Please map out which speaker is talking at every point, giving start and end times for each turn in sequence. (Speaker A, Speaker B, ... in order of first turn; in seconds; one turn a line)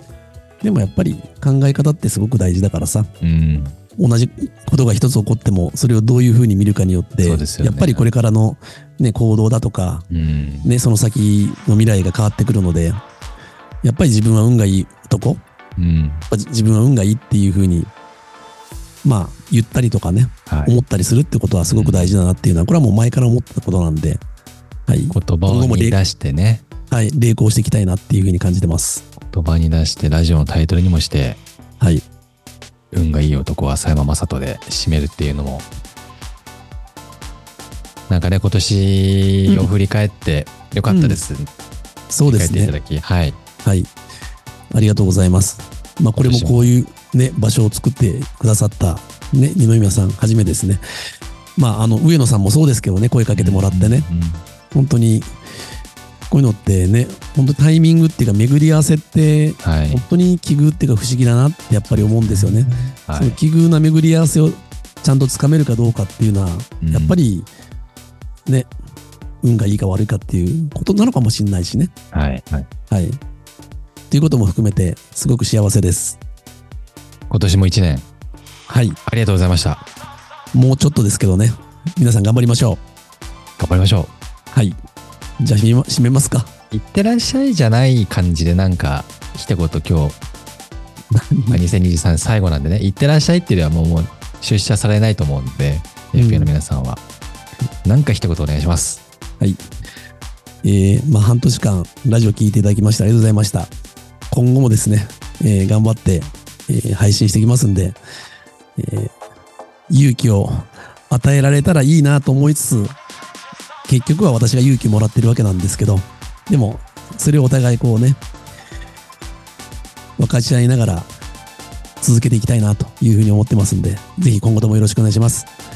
Speaker A: 0.6-3.1
Speaker B: 3.2-3.8
Speaker A: 4.0-10.1
Speaker B: 7.2-8.1
Speaker B: 10.1-10.7
Speaker A: 10.6-13.0
Speaker A: 13.8-15.4
Speaker B: 15.8-16.2
Speaker A: 16.3-17.9
Speaker A: 19.0-24.2
Speaker B: 20.5-20.8
Speaker B: 21.7-22.2
Speaker A: 24.9-26.0
Speaker B: 25.1-26.6
Speaker A: 26.9-29.1
Speaker B: 29.3-31.4
Speaker B: 32.9-35.7
Speaker B: 38.1-41.5
Speaker A: 40.9-41.2
Speaker A: 42.1-42.7
Speaker B: 42.3-43.4
Speaker A: 43.6-43.9
Speaker A: 44.7-50.8
Speaker B: 46.2-46.7
Speaker A: 51.6-54.1
Speaker B: 53.4-54.4
Speaker A: 54.7-55.3
Speaker A: 56.3-67.5
Speaker B: 59.6-60.0
Speaker B: 62.3-63.4
Speaker B: 66.8-67.2
Speaker A: 69.4-71.9
Speaker B: 72.1-72.7
Speaker A: 72.9-73.2
Speaker A: 74.1-76.2
Speaker B: 77.3-78.1
Speaker A: 78.7-79.0
Speaker B: 79.1-79.8
Speaker A: 80.5-82.8
Speaker B: 83.6-84.1
Speaker A: 85.4-86.5
Speaker B: 86.7-90.2
Speaker A: 91.1-91.6
Speaker B: 91.5-97.0
Speaker A: 96.2-96.5
Speaker B: 97.8-99.0
Speaker A: 100.6-103.7
Speaker A: 104.3-108.0
Speaker A: 108.8-109.1
Speaker A: 109.9-113.0
Speaker A: 113.9-118.2
Speaker A: 120.2-121.1
Speaker A: 122.0-125.5